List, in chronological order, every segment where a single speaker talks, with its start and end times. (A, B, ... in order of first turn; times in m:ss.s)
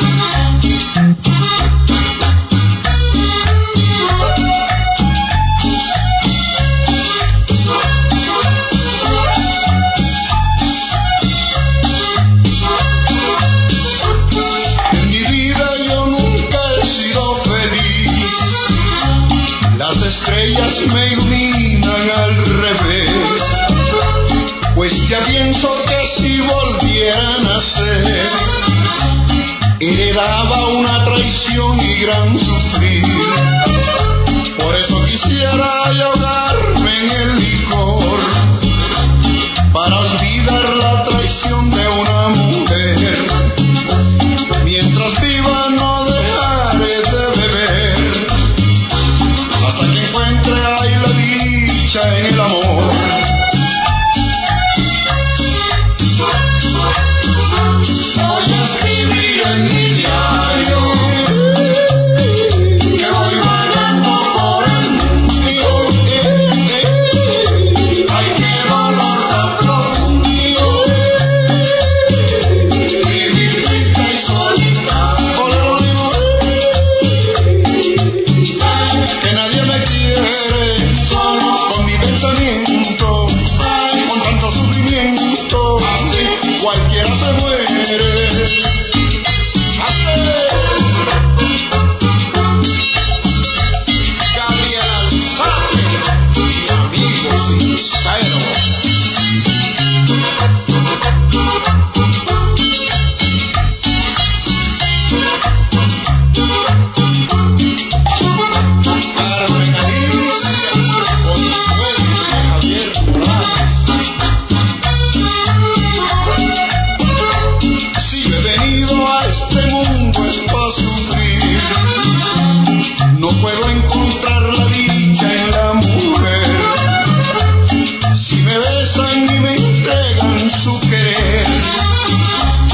0:14.9-0:18.6 A
0:19.7-0:23.6 A
0:24.7-0:28.5 A
0:29.8-0:33.5 A
0:34.6-0:38.5 A
0:39.7-0:43.5 A
0:44.6-0:48.4 A
0:49.6-0:53.3 A
0:58.1-1:01.6 A
1:02.8-1:11.1 A
1:12.8-1:17.0 A
1:18.4-1:28.7 A
1:29.8-1:30.9 A
1:34.3-1:38.8 A
1:49.1-1:53.9 A
1:58.0-2:01.9 A
2:03.1-2:07.0 A
2:08.1-2:11.7 A